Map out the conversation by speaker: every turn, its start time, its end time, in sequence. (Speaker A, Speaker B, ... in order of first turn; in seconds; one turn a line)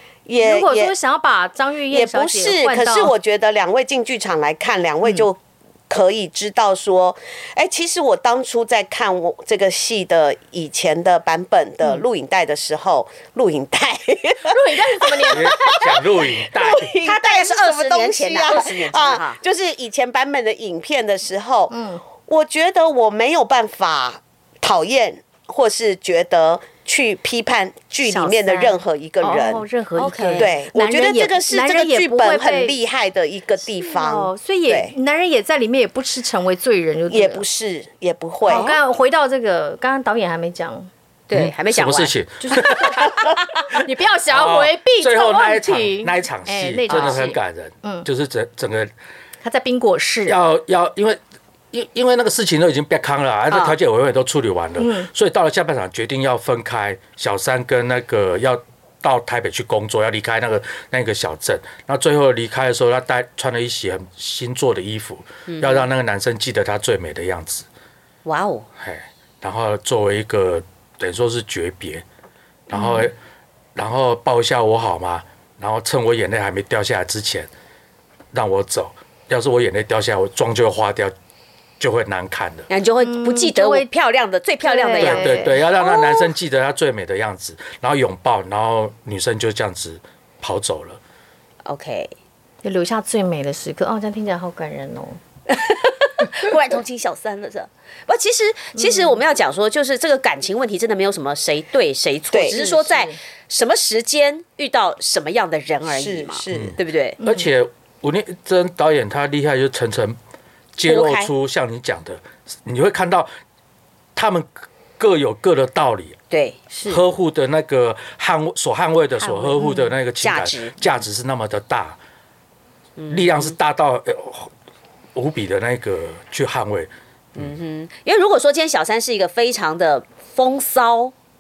Speaker A: 0.2-0.9
Speaker B: 0.4-3.1
Speaker A: 1.9-29.6
Speaker B: 14.4-16.0
Speaker C: 15.3-16.9
Speaker D: 17.0-19.4
Speaker B: 21.7-22.0
Speaker B: 28.0-32.8
Speaker D: 30.0-30.5
Speaker A: 30.4-34.9
Speaker B: 33.8-37.4
Speaker A: 37.1-38.7
Speaker B: 38.5-40.9
Speaker D: 38.5-38.8
Speaker D: 41.3-42.1
Speaker C: 41.3-48.9
Speaker B: 42.4-43.1
Speaker B: 43.6-48.1
Speaker D: 46.9-47.2
Speaker B: 49.4-50.4
Speaker C: 50.3-51.2
Speaker C: 51.7-67.7
Speaker D: 53.5-53.8
Speaker B: 54.8-55.1
Speaker D: 65.5-65.9
Speaker D: 68.2-68.7
Speaker C: 68.8-72.0
Speaker C: 72.7-73.1
Speaker B: 72.7-73.1
Speaker C: 73.8-77.5
Speaker C: 78.3-81.1
Speaker C: 81.8-82.7
Speaker D: 82.7-85.5
Speaker B: 83.0-83.9
Speaker B: 84.6-86.2
Speaker C: 85.0-91.0
Speaker D: 91.6-92.1
Speaker B: 92.6-95.2
Speaker D: 95.5-107.2
Speaker B: 98.8-99.2
Speaker A: 102.3-102.6
Speaker B: 102.5-103.2
Speaker A: 105.9-106.8
Speaker C: 106.5-110.2
Speaker B: 107.2-107.5
Speaker C: 110.8-113.3
Speaker D: 110.8-111.3
Speaker C: 114.1-116.2
Speaker D: 116.3-116.6
Speaker B: 116.7-117.0
Speaker C: 116.9-122.0
Speaker B: 119.2-119.9
Speaker D: 120.2-120.8
Speaker D: 123.0-123.5
Speaker C: 123.1-124.5
Speaker C: 125.1-127.5
Speaker D: 127.4-131.1